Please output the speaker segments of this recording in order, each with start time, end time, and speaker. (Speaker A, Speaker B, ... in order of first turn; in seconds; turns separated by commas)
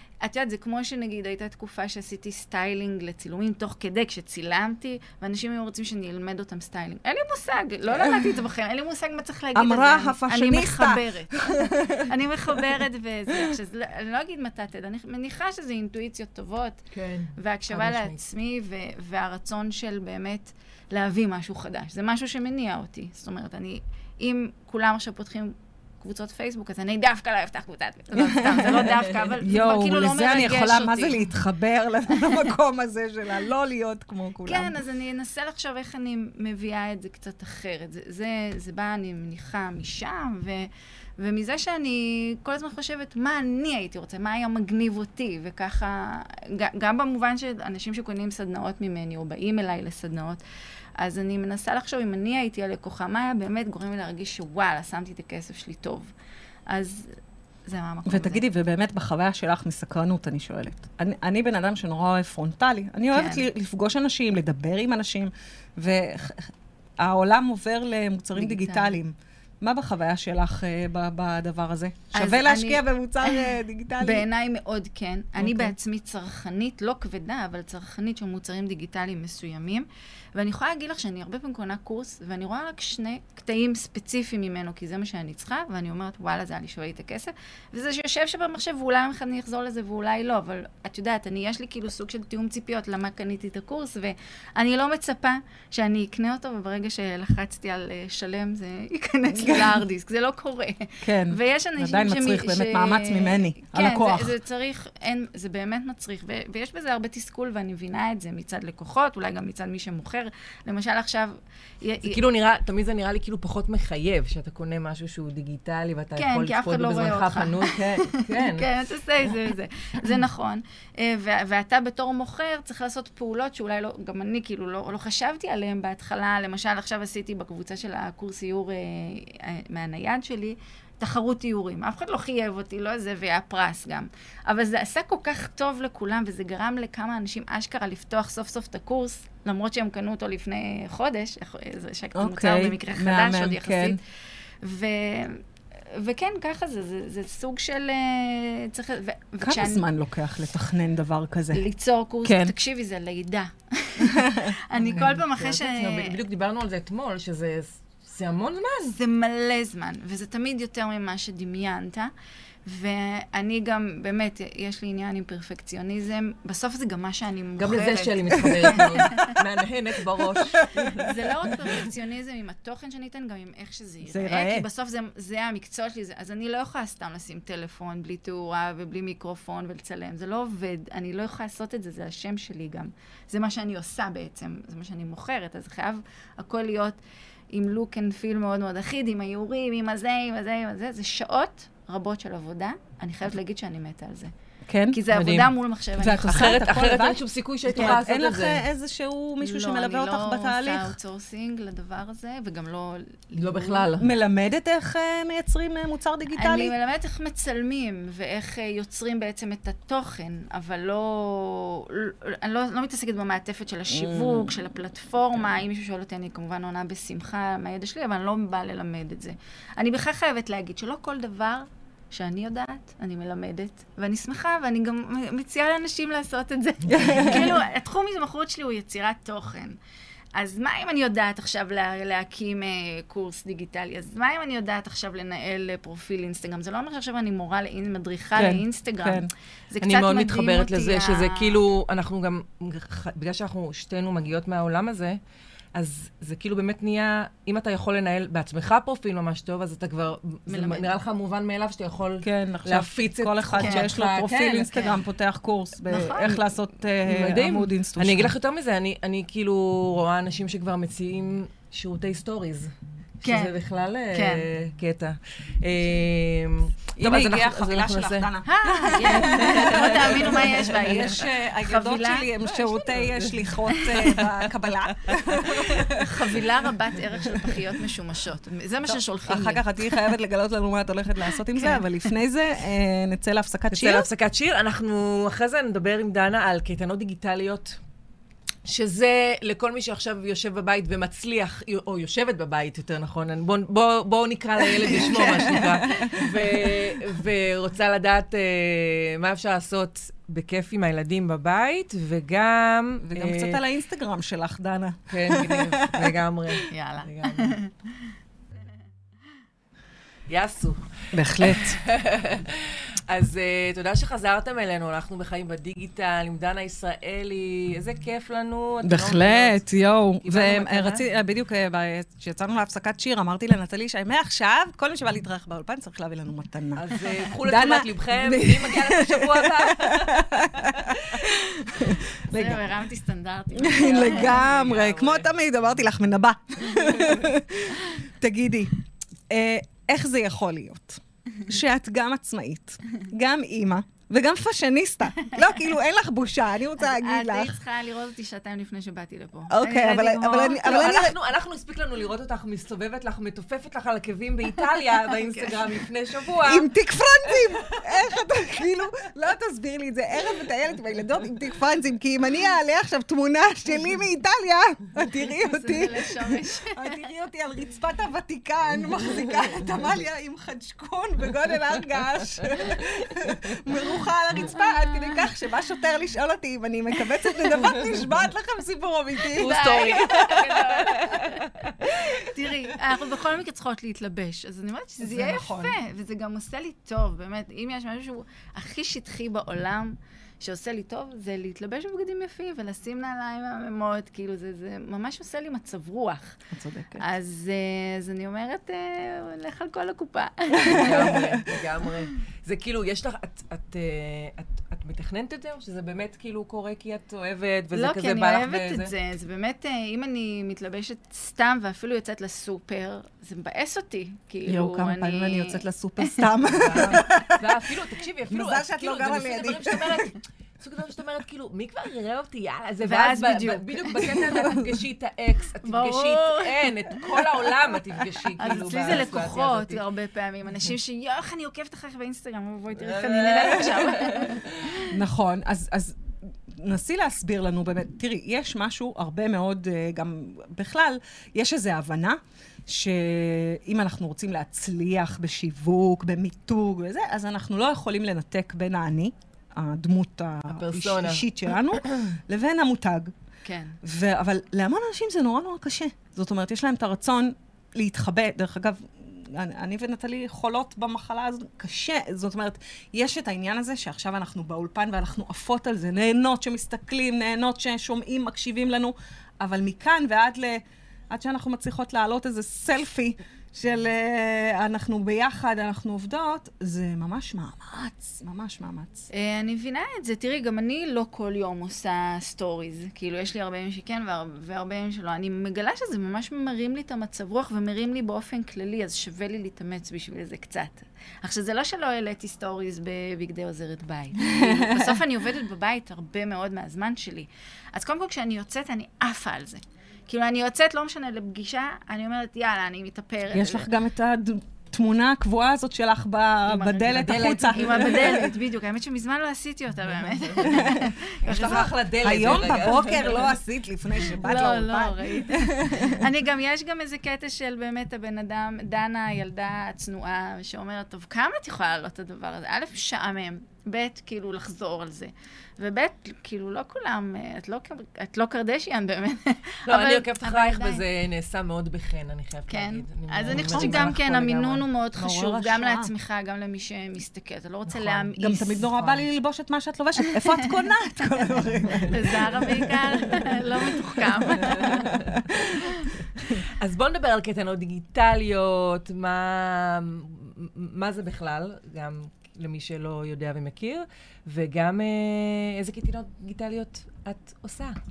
Speaker A: 0.2-16.8, Speaker B: 9.5-12.6, Speaker C: 16.9-18.2, Speaker A: 17.4-31.2, Speaker B: 28.2-34.8, Speaker A: 34.4-50.4, Speaker A: 51.0-56.1, Speaker A: 56.7-58.4, Speaker B: 58.0-74.2, Speaker A: 63.1-63.4, Speaker A: 68.3-68.9, Speaker A: 72.1-112.2, Speaker B: 75.4-75.7, Speaker B: 99.3-99.8, Speaker B: 101.0-104.3, Speaker C: 112.0-118.7, Speaker A: 116.2-144.0, Speaker B: 142.1-144.0, Speaker A: 144.6-149.8, Speaker B: 149.4-151.6, Speaker A: 151.5-156.2, Speaker B: 152.2-152.5, Speaker B: 154.0-154.5, Speaker C: 154.8-158.9, Speaker A: 158.8-162.1, Speaker A: 162.6-169.4, Speaker C: 167.6-171.7, Speaker A: 170.9-187.0, Speaker B: 174.1-174.6, Speaker A: 187.5-194.3, Speaker B: 194.7-195.0, Speaker A: 194.9-196.5, Speaker C: 195.1-195.5, Speaker B: 196.0-201.0, Speaker C: 196.2-198.6, Speaker A: 199.4-203.9, Speaker C: 203.4-204.1, Speaker B: 204.0-206.7, Speaker A: 206.3-229.8, Speaker B: 213.9-214.6, Speaker B: 226.9-227.5, Speaker A: 230.3-241.6, Speaker B: 238.3-239.3, Speaker C: 239.8-245.2, Speaker C: 245.7-254.9, Speaker A: 250.5-250.9, Speaker B: 252.2-258.3, Speaker A: 253.6-253.9, Speaker A: 254.7-255.0, Speaker A: 255.9-256.4, Speaker C: 257.0-262.7, Speaker C: 263.2-268.3, Speaker A: 263.2-263.5, Speaker A: 264.1-264.4, Speaker B: 266.9-276.4, Speaker A: 268.4-272.3, Speaker C: 269.0-271.1, Speaker C: 272.4-274.5, Speaker A: 273.7-274.0, Speaker C: 275.1-275.9, Speaker A: 276.0-280.0, Speaker B: 279.3-284.1, Speaker A: 281.5-281.8, Speaker C: 283.7-287.8, Speaker C: 288.6-303.6, Speaker B: 294.8-297.0, Speaker B: 303.0-306.6, Speaker C: 305.1-307.6, Speaker A: 306.7-307.7, Speaker C: 310.3-319.6, Speaker B: 311.1-311.8, Speaker B: 318.8-332.8, Speaker C: 320.2-321.0, Speaker C: 326.7-331.3, Speaker A: 332.3-334.5, Speaker B: 333.6-338.7, Speaker C: 333.6-335.3, Speaker B: 339.3-347.6, Speaker A: 345.2-345.5, Speaker A: 346.8-351.1, Speaker B: 349.5-351.2, Speaker C: 350.4-356.7, Speaker A: 355.0-355.7, Speaker B: 356.4-379.9, Speaker C: 357.3-357.8, Speaker A: 365.2-367.1, Speaker A: 374.5-375.2, Speaker C: 379.3-381.6, Speaker A: 379.4-396.4, Speaker B: 385.0-385.8, Speaker B: 396.5-397.0, Speaker A: 397.0-401.6, Speaker B: 400.6-401.3, Speaker C: 400.8-408.9, Speaker A: 407.7-416.3, Speaker B: 414.4-417.6, Speaker C: 416.4-429.8, Speaker A: 416.8-417.1, Speaker B: 418.3-420.1, Speaker A: 422.8-424.7, Speaker A: 425.6-427.5, Speaker A: 428.4-434.8, Speaker C: 432.8-434.9, Speaker B: 434.9-453.1, Speaker C: 450.5-452.1, Speaker A: 453.4-453.8, Speaker B: 453.8-479.1, Speaker A: 479.1-503.7, Speaker B: 494.2-495.0, Speaker B: 503.3-508.3, Speaker A: 506.5-511.7, Speaker C: 506.8-508.2, Speaker C: 510.1-510.6, Speaker B: 510.4-516.0, Speaker C: 511.2-513.4, Speaker A: 514.2-530.9, Speaker C: 529.7-534.6, Speaker A: 532.5-538.6, Speaker B: 533.3-534.0, Speaker B: 535.0-535.9, Speaker B: 538.2-543.3, Speaker C: 538.6-539.1, Speaker A: 540.2-540.5, Speaker C: 541.6-541.9, Speaker A: 541.9-545.9, Speaker B: 543.9-545.2, Speaker C: 544.5-545.3, Speaker C: 546.2-557.8